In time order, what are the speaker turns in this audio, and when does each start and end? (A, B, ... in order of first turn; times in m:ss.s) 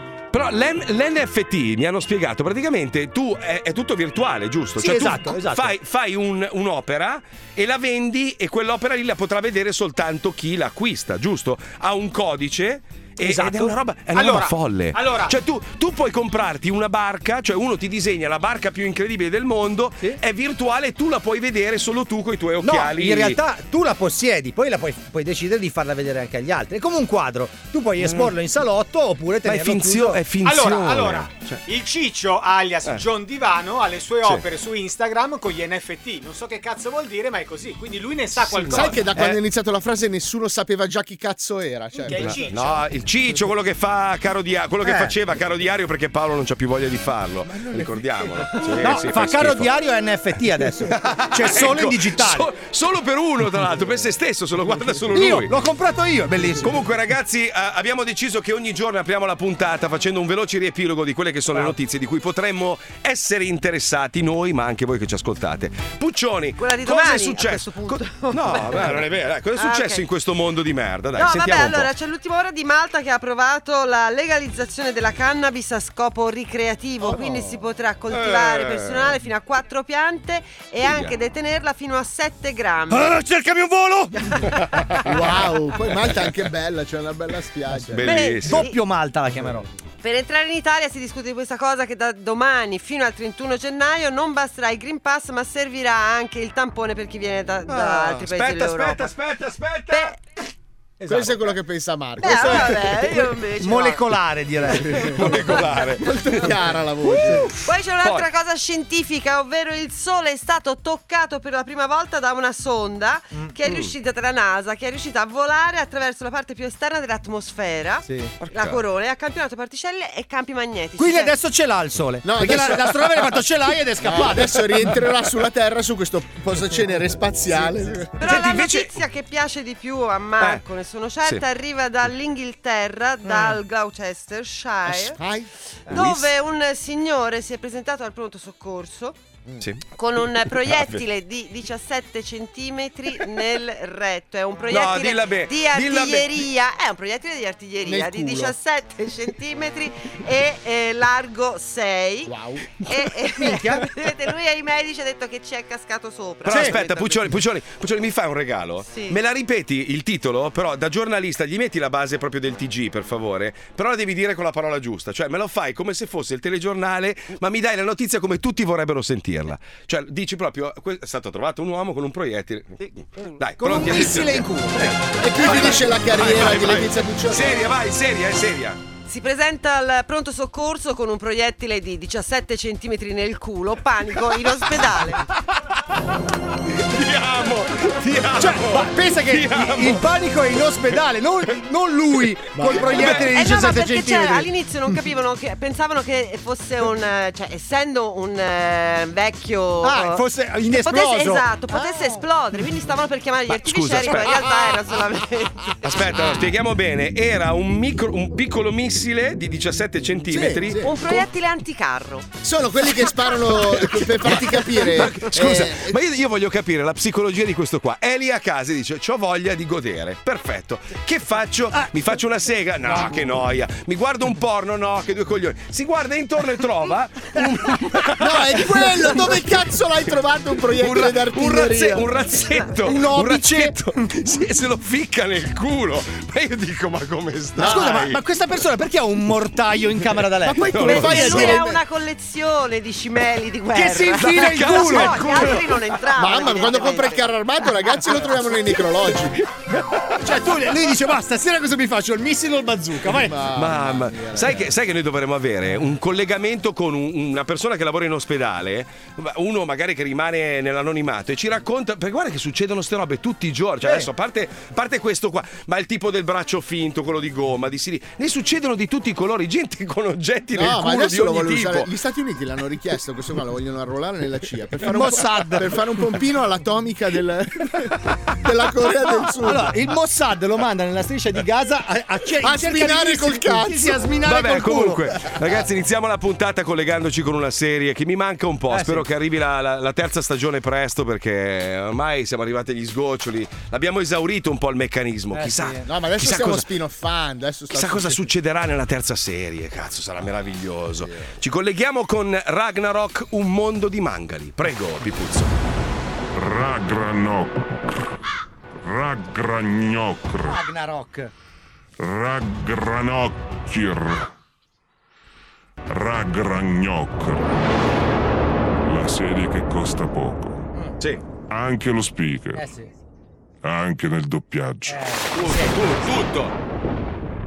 0:00.3-0:23.4 A
0:04.8-0:05.8 B
0:13.2-0:13.7 B
0:14.1-0:15.4 C
0:22.6-0:30.2 B
0:28.0-0:28.3 A
0:29.4-0:31.6 A
0:30.4-0:39.0 C
0:38.3-0:39.4 A
0:38.7-0:42.4 D
0:42.1-0:42.8 C
0:42.2-0:49.7 A
0:44.8-0:45.1 B
0:47.7-0:48.0 D
0:48.8-0:52.5 B
0:50.9-0:55.5 A
0:55.1-0:56.7 B
0:56.6-1:11.9 A
1:06.6-1:09.0 E
1:09.6-1:10.0 E
1:11.2-1:23.2 E
1:17.1-1:17.5 D
1:18.1-1:19.2 A
1:20.8-1:21.2 A
1:22.9-1:24.4 B
1:25.0-1:28.1 D
1:27.9-1:29.7 B
1:28.0-1:28.7 A
1:28.1-1:28.8 E
1:30.0-1:39.1 E
1:37.7-1:40.1 A
1:39.9-1:40.2 E
1:41.0-1:42.8 D
1:42.2-1:44.0 E
1:42.2-1:45.3 B
1:44.9-1:46.5 A
1:45.0-1:45.5 D
1:46.0-1:47.5 D
1:47.2-1:47.4 A
1:47.6-2:01.3 E
1:48.0-1:48.3 A
1:53.6-1:53.9 A
1:58.1-1:58.3 B
1:58.4-1:58.8 A
2:01.0-2:04.7 B
2:02.2-2:03.4 D
2:04.0-2:08.1 D
2:08.2-2:15.2 E
2:08.2-2:09.0 A
2:14.9-2:15.5 D
2:15.9-2:19.2 E
2:15.9-2:16.3 A
2:19.6-2:19.9 A
2:20.0-2:37.4 E
2:20.4-2:21.0 A
2:24.7-2:26.4 A
2:27.9-2:28.4 B
2:27.9-2:28.5 D
2:33.4-2:33.9 B
2:36.4-2:58.8 A
2:36.5-2:36.8 B
2:38.9-2:39.2 E
2:53.6-2:55.0 B
2:55.2-2:57.6 D
2:59.1-3:05.2 E
3:06.7-3:10.0 A
3:08.4-3:14.5 B
3:12.7-3:13.3 A
3:12.9-3:20.2 E
3:19.8-3:22.0 B
3:20.8-3:26.3 E
3:23.5-3:24.5 A
3:25.8-3:31.2 A
3:30.3-3:30.9 D
3:30.8-3:32.3 E
3:32.4-3:36.0 D
3:33.8-3:49.4 A
3:48.1-3:52.2 D
3:50.7-3:58.2 A
3:52.8-3:53.7 B
3:57.6-4:01.7 B
4:00.4-4:01.6 A
4:00.7-4:07.4 E
4:00.7-4:01.7 D
4:03.7-4:05.5 B
4:04.2-4:06.0 A
4:06.2-4:09.4 D
4:10.2-4:13.4 B
4:13.0-4:14.7 D
4:13.5-4:31.9 A
4:23.8-4:24.1 D
4:30.5-4:39.7 D
4:34.8-4:35.7 B
4:39.4-4:45.1 B
4:42.4-4:44.0 D
4:44.2-4:56.7 A
4:48.7-4:49.1 B
4:55.3-4:55.9 B
4:55.8-4:58.3 D
4:57.7-5:05.6 A
5:06.3-5:08.0 F
5:08.8-5:10.6 F
5:10.4-5:11.3 B
5:12.0-5:14.3 F
5:15.9-5:17.7 F
5:18.8-5:20.6 F
5:21.5-5:22.7 F
5:22.6-5:22.9 B
5:23.6-5:25.0 F
5:24.9-5:25.8 B
5:25.4-5:26.6 A